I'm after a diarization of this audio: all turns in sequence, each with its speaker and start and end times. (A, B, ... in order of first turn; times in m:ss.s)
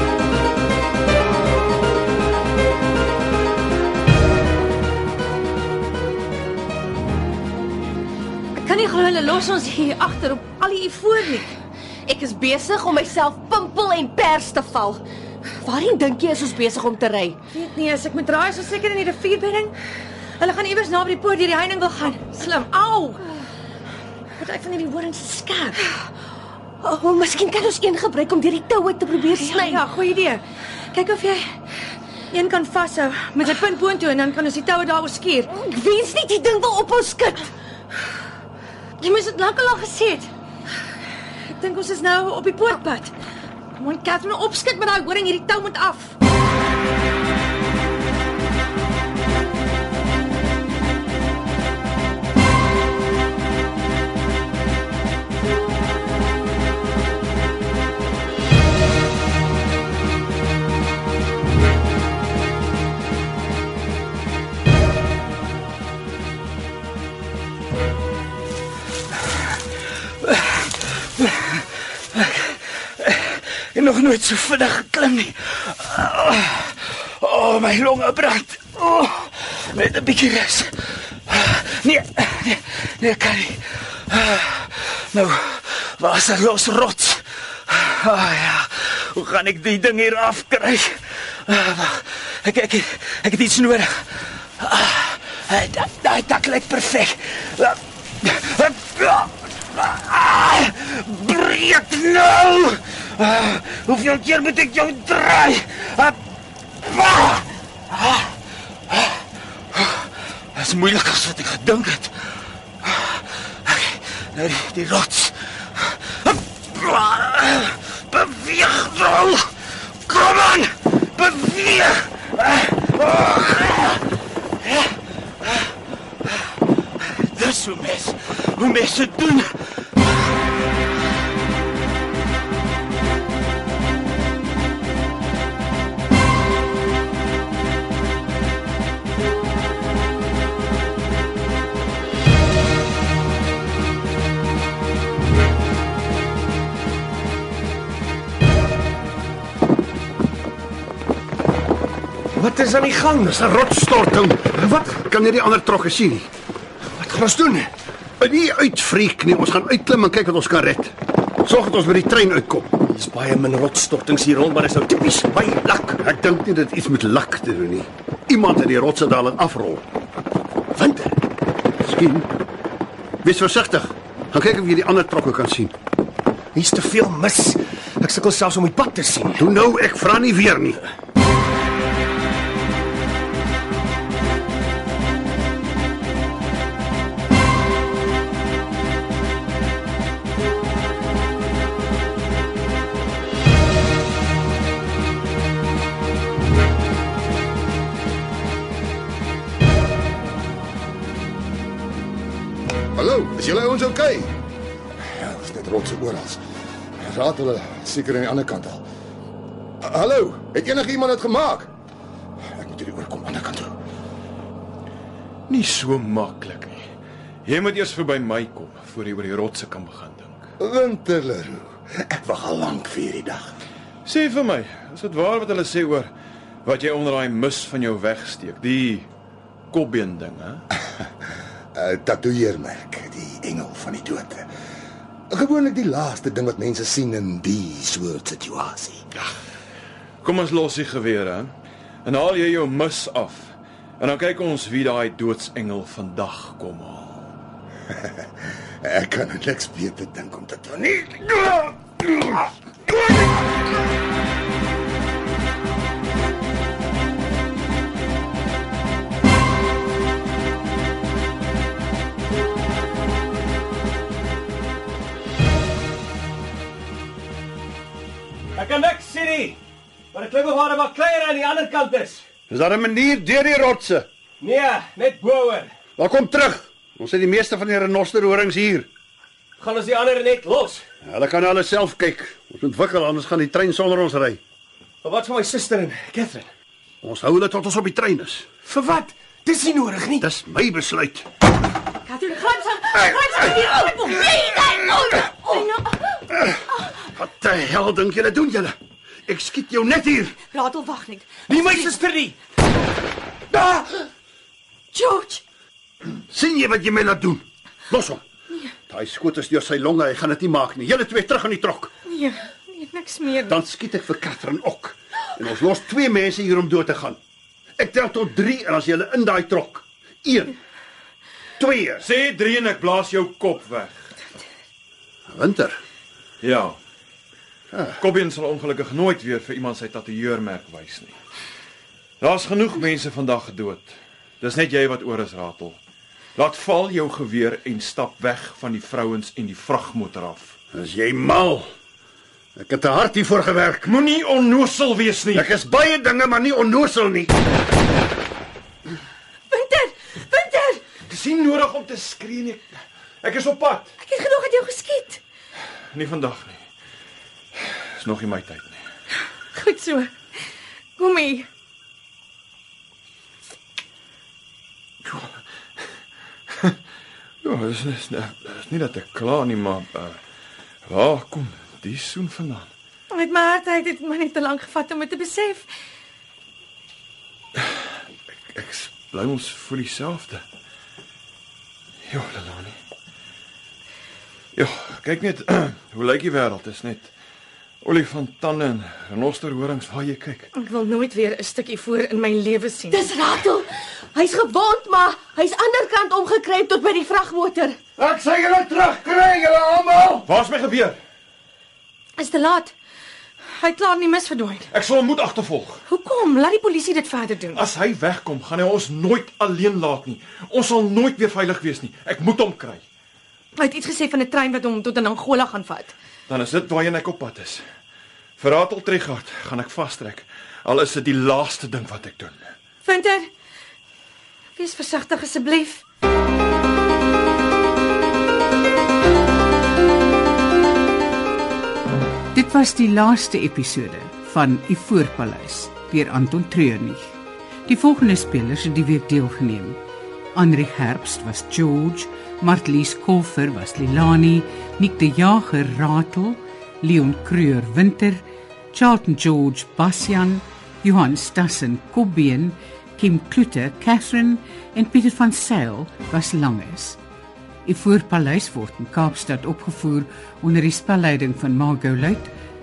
0:08.6-0:11.5 A
0:12.1-0:15.0 B
0:15.6-0:17.4 B
0:17.5-0:19.7 A
0:20.4-0:23.3 A
0:24.4-0:25.8 A
0:26.8-0:29.8 B
0:29.2-0:31.5 A
0:32.3-0:35.5 A
0:35.6-0:37.4 B
0:39.0-0:40.3 A
0:41.5-0:43.1 A
0:43.8-0:46.1 A
1:10.2-1:11.5 C
1:12.1-1:46.2 C
1:46.9-1:48.3 C
1:48.9-1:59.5 C
2:00.0-2:04.0 C
2:04.6-2:05.7 C
2:07.1-2:09.6 C
2:32.3-2:33.5 D
2:33.3-2:36.3 E
2:34.4-2:35.0 D
2:36.9-2:37.7 D
2:38.2-2:42.7 E
2:42.8-2:46.0 D
2:46.0-2:49.8 E
2:50.7-2:51.2 D
2:51.8-2:52.3 E
2:53.2-2:55.7 E
2:56.5-2:59.5 D
2:59.4-3:00.8 E
3:23.0-3:24.3 F
3:25.0-3:26.4 F
3:27.0-3:28.8 F
3:29.8-3:31.7 F
3:32.5-3:33.8 F
3:35.5-3:36.8 G
3:37.4-3:40.5 G
3:40.6-3:43.5 F
3:44.0-3:46.1 G
3:46.6-3:49.1 G
3:49.7-3:50.6 G
3:51.8-3:54.5 F
3:55.3-3:59.0 F
4:00.2-4:01.5 G
4:02.0-4:07.4 G
4:08.8-4:13.4 F
4:28.6-4:29.6 D
4:30.1-4:32.2 D
4:32.5-4:34.1 E
4:34.4-4:35.7 D
4:36.0-4:38.9 E
4:39.6-4:40.8 D
4:41.0-4:44.4 E
4:45.0-4:46.5 D
4:47.0-4:48.5 E
4:48.6-4:50.2 D
4:50.2-4:51.2 E
4:52.0-4:56.2 A
4:53.4-4:53.8 D
4:56.5-4:58.7 E
4:59.3-5:00.4 E
5:00.5-5:02.0 A
5:01.5-5:02.4 D
5:04.9-5:05.4 A
5:06.3-5:08.2 E
5:08.9-5:11.9 E
5:12.1-5:13.6 A
5:13.5-5:17.2 E
5:17.8-5:20.6 E
5:21.6-5:22.0 E
5:22.0-5:24.2 G
5:25.3-5:25.8 E
5:26.4-5:26.8 G
5:27.7-5:28.0 E
5:28.0-5:31.2 G
5:32.2-5:35.8 G
5:36.4-5:40.6 G
5:40.7-5:41.7 E
5:42.6-5:43.9 E
5:43.8-5:45.5 G
5:45.3-5:47.3 E
5:49.5-5:50.8 A
5:51.0-5:53.9 G
5:54.0-5:55.2 A
5:55.9-5:56.6 G
5:57.5-5:58.8 G
5:59.5-6:00.1 A
6:01.0-6:01.5 A
6:05.0-6:05.4 G
6:07.4-6:10.2 G
6:10.8-6:12.7 G
6:13.1-6:15.7 A
6:17.6-6:17.8 G
6:18.5-6:20.4 G
6:22.0-6:22.8 G
6:24.6-6:27.1 G
6:27.8-6:30.5 G
6:30.6-6:33.4 A
6:32.9-6:37.8 B
6:38.0-6:40.2 E
6:40.2-6:41.0 G
6:42.2-6:42.7 A
6:43.6-6:44.7 A
6:44.7-6:45.8 G
6:45.9-6:47.6 A
6:47.5-6:52.8 G
6:53.6-6:55.9 A
6:56.3-6:57.6 G
6:58.4-7:02.4 G
7:02.8-7:03.3 A
7:04.6-7:05.8 A
7:12.3-7:17.1 H
7:17.6-7:19.8 H
7:20.3-7:37.0 H
7:37.6-7:42.3 H